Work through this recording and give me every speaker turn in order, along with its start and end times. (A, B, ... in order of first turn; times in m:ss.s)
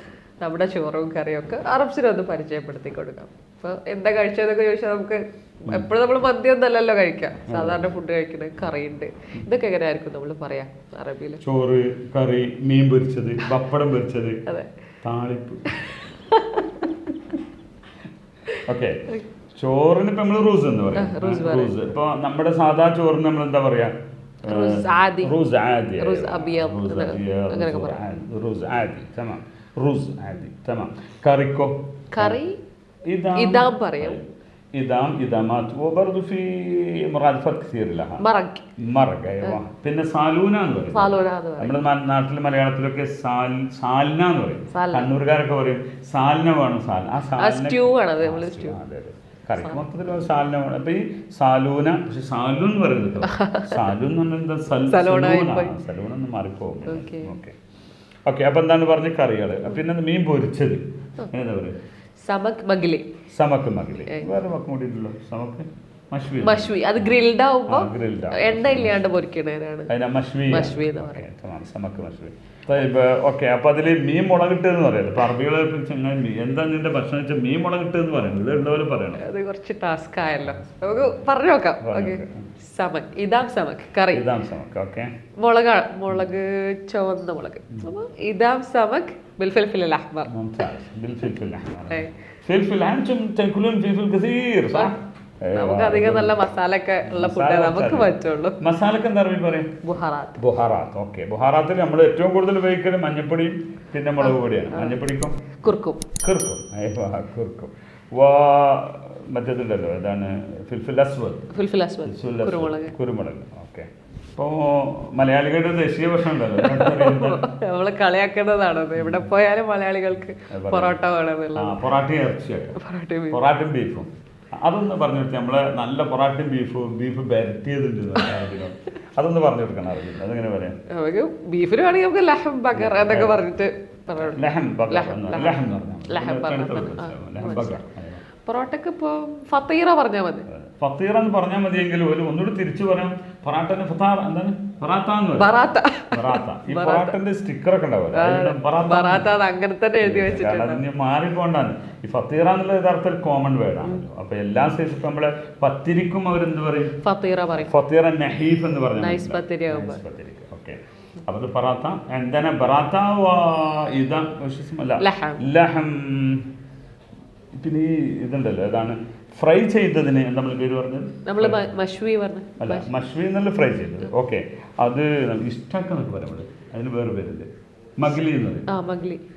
0:00.4-0:11.4 A
0:07.5-0:07.9 B
0:11.4-0:14.4 B
0:15.0-0:15.8 B
0:15.7-0:17.0 A
0:18.6-0:19.0 B
0:19.5-0:23.9 B
0:20.9-0:21.8 A
0:24.4-0:32.4 B
0:24.4-0:25.3 A
0:26.0-0:28.2 A
0:32.1-0:32.6 A
0:33.0-0:38.2 B
0:33.3-0:34.2 A
0:38.2-0:38.6 A
0:38.8-0:57.5 B
0:40.9-0:41.8 A
0:44.7-0:45.1 A
0:47.4-0:48.8 A
0:49.6-0:49.8 A
0:53.2-0:53.8 A
0:54.9-0:55.7 A
0:56.8-0:57.3 A
0:58.2-1:01.8 B
1:02.2-1:03.1 A
1:03.3-1:07.2 B
1:06.4-1:09.9 A
1:07.7-1:09.1 B
1:09.9-1:19.3 B
1:10.5-1:11.2 A
1:19.2-1:24.2 A
1:20.4-1:21.2 B
1:21.8-1:22.4 B
1:24.1-1:25.1 B
1:25.4-1:30.3 A
1:30.2-1:36.4 B
1:35.5-1:38.6 A
1:37.0-1:39.8 B
1:39.8-1:40.4 A
1:40.4-1:45.4 B
1:44.2-1:45.0 A
1:45.6-1:46.1 A
1:46.2-1:51.5 B
1:51.5-1:52.9 A
1:52.0-1:57.5 B
1:56.6-2:01.8 A
1:59.0-1:59.3 B
2:00.5-2:01.0 B
2:01.6-2:02.8 B
2:02.8-2:03.4 A
2:03.3-2:04.1 B
2:04.6-2:10.8 B
2:10.9-2:17.8 A
2:12.7-2:13.5 B
2:14.2-2:18.2 B
2:18.4-2:20.5 A
2:20.5-2:25.6 B
2:25.4-2:27.1 A
2:26.1-2:29.4 B
2:28.1-2:30.8 A
2:30.0-2:37.0 B
2:37.0-2:37.7 A
2:37.7-2:46.5 B
2:39.0-2:40.0 A
2:45.0-2:45.4 A
2:47.6-2:51.6 B
2:51.2-2:52.9 A
2:52.6-2:58.7 B
2:58.7-2:59.2 A